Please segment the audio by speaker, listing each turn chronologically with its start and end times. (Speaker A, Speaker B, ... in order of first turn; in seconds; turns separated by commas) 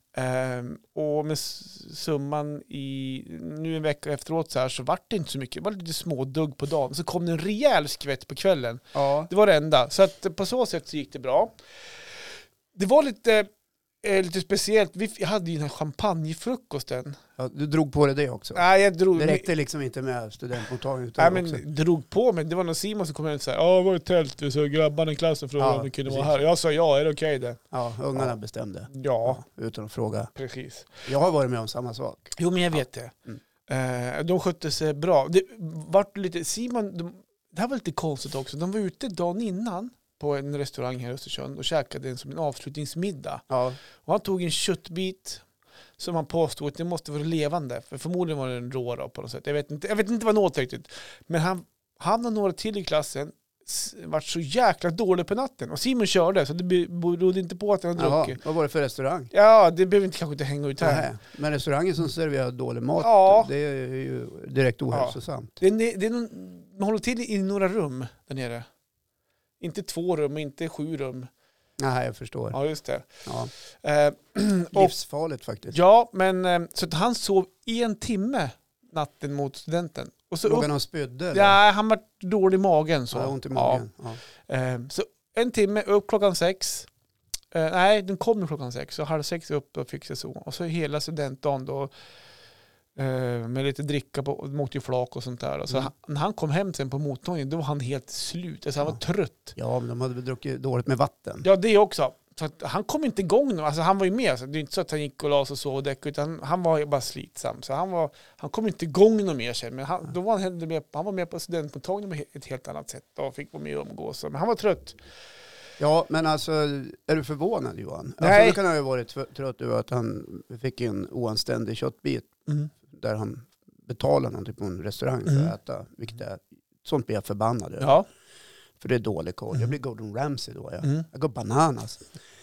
Speaker A: 0.1-11.5, Speaker B: 8.9-9.3, Speaker A: 12.7-13.5, Speaker A: 14.0-17.2, Speaker B: 17.4-18.6, Speaker A: 18.6-19.5, Speaker B: 19.1-21.6, Speaker A: 21.2-27.6, Speaker B: 25.6-26.4, Speaker B: 27.7-30.3, Speaker A: 28.9-29.4, Speaker A: 30.4-30.9, Speaker B: 31.1-32.4, Speaker A: 32.4-33.1, Speaker A: 33.7-43.4, Speaker B: 43.5-43.8, Speaker A: 44.0-45.4, Speaker A: 46.0-58.4, Speaker B: 58.0-59.3, Speaker A: 59.3-61.1, Speaker B: 60.8-65.6, Speaker A: 63.0-63.5, Speaker A: 64.9-68.7, Speaker A: 69.6-71.3, Speaker B: 71.8-72.6, Speaker A: 72.5-73.2, Speaker B: 73.2-73.5, Speaker A: 73.8-74.9, Speaker B: 74.7-75.8, Speaker A: 75.7-80.7, Speaker B: 80.4-81.6, Speaker A: 81.3-83.8, Speaker B: 83.1-84.2, Speaker A: 84.5-86.9, Speaker A: 87.5-91.9, Speaker A: 93.0-99.6, Speaker B: 99.6-101.5, Speaker A: 101.4-115.0, Speaker B: 115.8-122.3, Speaker A: 118.2-118.6, Speaker B: 122.8-128.0, Speaker A: 127.8-128.1, Speaker B: 128.8-132.0